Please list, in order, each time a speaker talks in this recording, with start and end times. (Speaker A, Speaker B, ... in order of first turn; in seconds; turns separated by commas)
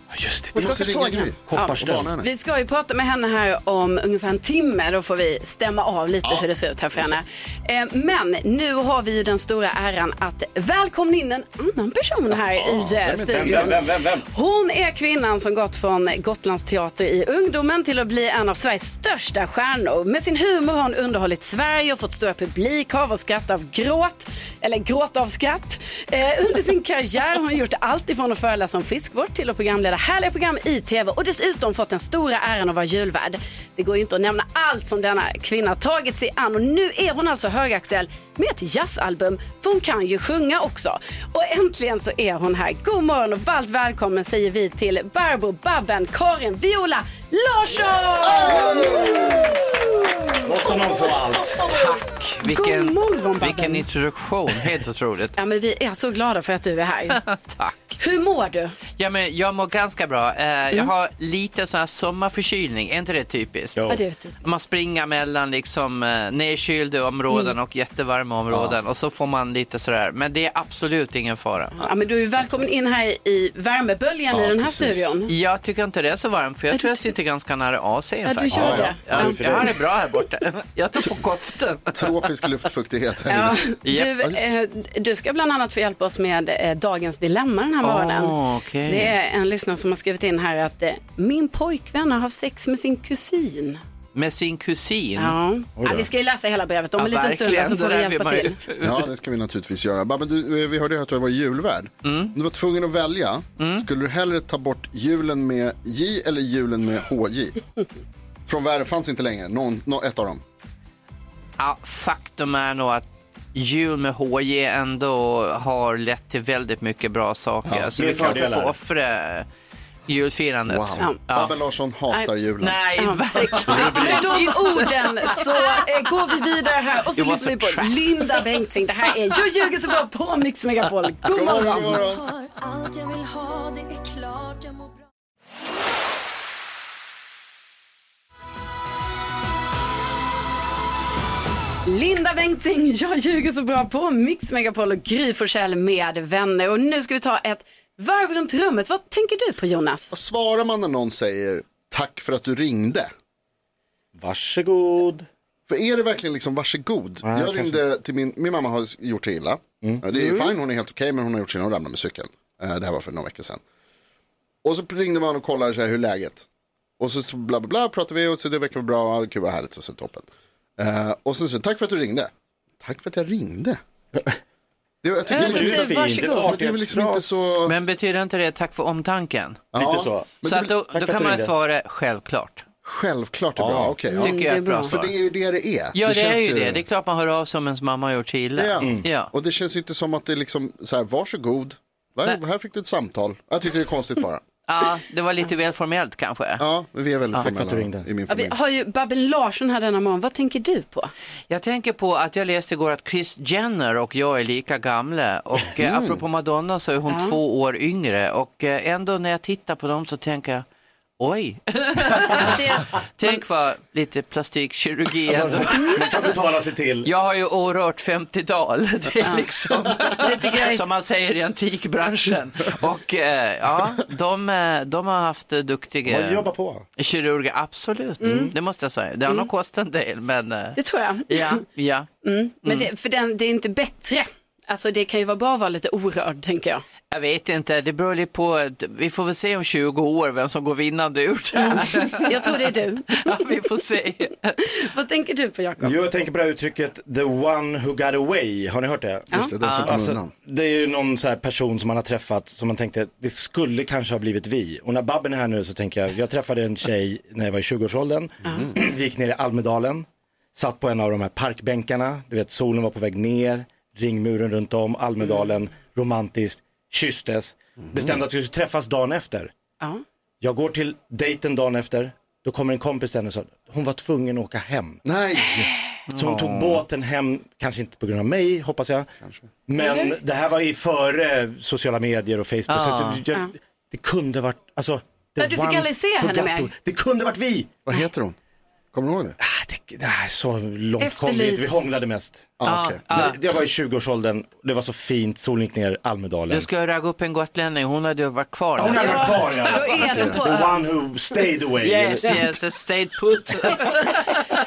Speaker A: 0.1-2.1, Speaker B: 0.5-50.3, Speaker C: 0.5-2.3, Speaker C: 6.2-7.2, Speaker C: 12.3-13.8, Speaker A: 13.3-14.2, Speaker C: 48.3-49.2, Speaker A: 50.4-51.6, Speaker D: 51.6-55.4, Speaker B: 52.4-53.9, Speaker B: 55.4-57.2, Speaker D: 57.1-58.0, Speaker B: 58.0-58.8, Speaker D: 59.0-63.8, Speaker A: 63.8-64.0, Speaker B: 63.9-64.3, Speaker D: 64.4-71.8, Speaker B: 67.3-67.5, Speaker C: 68.5-68.8, Speaker B: 71.8-75.3, Speaker C: 74.3-75.1, Speaker D: 75.3-82.2, Speaker B: 76.7-77.1, Speaker B: 78.2-79.8, Speaker A: 78.5-79.7, Speaker C: 78.5-79.2, Speaker C: 81.9-83.6, Speaker B: 83.3-93.8, Speaker D: 83.8-84.2, Speaker C: 84.2-84.5, Speaker D: 87.8-89.1, Speaker D: 94.1-95.4, Speaker B: 95.2-98.6, Speaker A: 95.8-96.1, Speaker D: 97.0-99.0, Speaker C: 98.8-107.6, Speaker D: 102.0-102.3, Speaker D: 103.6-103.9, Speaker C: 108.5-110.4, Speaker D: 111.6-119.5, Speaker C: 117.7-118.2, Speaker A: 118.0-118.8, Speaker D: 120.1-121.5, Speaker C: 120.7-122.8, Speaker D: 122.6-125.7, Speaker B: 123.0-132.0, Speaker A: 123.7-124.4, Speaker D: 127.1-128.3, Speaker C: 131.3-132.2, Speaker E: 132.2-135.0, Speaker B: 141.8-150.1, Speaker C: 150.1-153.1, Speaker A: 154.2-155.3, Speaker C: 155.7-163.6, Speaker A: 157.2-157.8, Speaker C: 164.6-166.4, Speaker C: 167.0-173.8, Speaker C: 175.0-177.8, Speaker B: 175.3-176.5, Speaker A: 175.3-177.5, Speaker D: 177.6-179.7, Speaker C: 179.7-180.7, Speaker A: 179.7-181.5, Speaker D: 180.4-182.7, Speaker C: 182.8-186.8, Speaker A: 183.6-184.1, Speaker B: 184.1-185.0, Speaker D: 184.2-185.1, Speaker D: 185.9-189.3, Speaker C: 188.6-194.4, Speaker A: 188.8-189.1, Speaker D: 194.7-196.6, Speaker C: 196.6-198.6, Speaker A: 197.4-198.1, Speaker B: 198.3-201.1, Speaker D: 201.5-210.6, Speaker C: 205.7-206.2, Speaker B: 207.1-207.4, Speaker D: 211.2-212.6, Speaker B: 212.4-213.4, Speaker D: 213.2-216.1, Speaker A: 215.3-217.1, Speaker D: 217.0-230.8, Speaker B: 219.2-220.9, Speaker A: 226.1-226.8, Speaker B: 228.2-228.5, Speaker A: 228.2-228.5, Speaker B: 230.8-231.6, Speaker D: 231.3-232.1, Speaker B: 232.2-236.8, Speaker D: 232.6-232.9, Speaker D: 237.1-244.6, Speaker B: 241.6-243.6, Speaker B: 244.7-246.0, Speaker A: 245.8-249.3, Speaker C: 249.3-250.3, Speaker D: 249.6-249.9, Speaker A: 249.8-269.5, Speaker C: 258.4-258.8, Speaker B: 258.4-258.7, Speaker C: 267.8-268.2, Speaker A: 270.4-275.0, Speaker C: 275.0-275.7, Speaker D: 276.1-276.8, Speaker A: 276.1-279.1, Speaker A: 279.7-287.8, Speaker B: 279.8-280.1, Speaker D: 282.7-283.2, Speaker B: 285.4-286.7, Speaker C: 287.9-288.4, Speaker C: 288.9-289.4, Speaker A: 289.4-292.6, Speaker B: 291.0-291.8, Speaker C: 292.6-293.0, Speaker D: 292.6-293.4, Speaker A: 293.1-296.7, Speaker D: 296.5-299.4, Speaker A: 298.8-302.5, Speaker B: 298.8-300.8, Speaker C: 300.0-300.4, Speaker D: 301.8-304.4